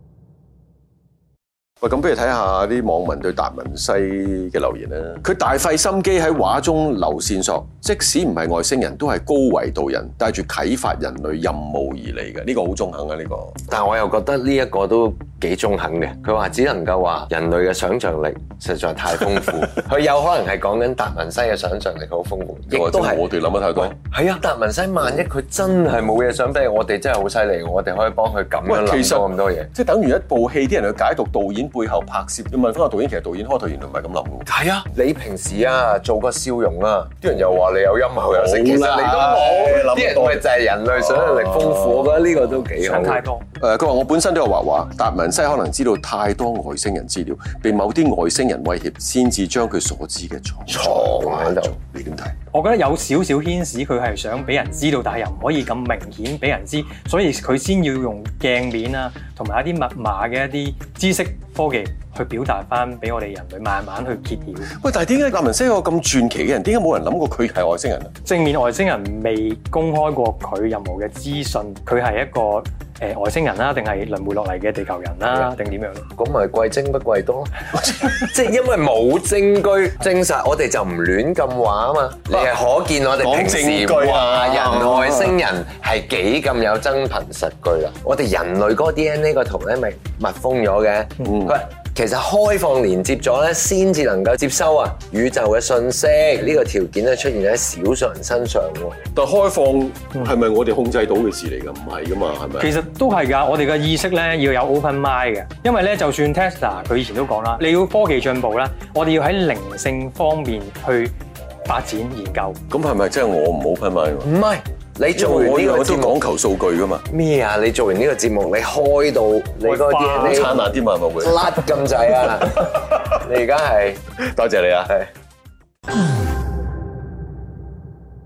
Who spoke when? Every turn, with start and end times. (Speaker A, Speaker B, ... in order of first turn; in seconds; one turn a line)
Speaker A: 1.8-13.6
Speaker B: 13.7-29.7
Speaker A: 22.7-23.9
Speaker A: 28.7-34.5
Speaker B: 34.5-43.2
Speaker A: 38.3-42.6
Speaker C: 42.8-43.4
Speaker A: 43.6-52.3
Speaker B: 50.7-51.7
Speaker C: 52.5-64.7
Speaker A: 64.7-68.1
Speaker C: 68.2-76.1
Speaker B: 75.3-75.5
Speaker B: 76.1-99.0
Speaker A: 77.8-78.2
Speaker A: 83.2-85.3
Speaker A: 91.2-91.5
Speaker A: 99.1-102.7
Speaker C: 102.6-111.1
Speaker C: 111.7-112.6
Speaker A: 112.7-114.3
Speaker B: 114.2-116.2
Speaker A: 115.2-117.0
Speaker B: 117.1-120.7
Speaker C: 119.6-120.5
Speaker A: 120.1-121.5
Speaker B: 121.2-124.0
Speaker A: 122.4-123.2
Speaker A: 124.2-124.9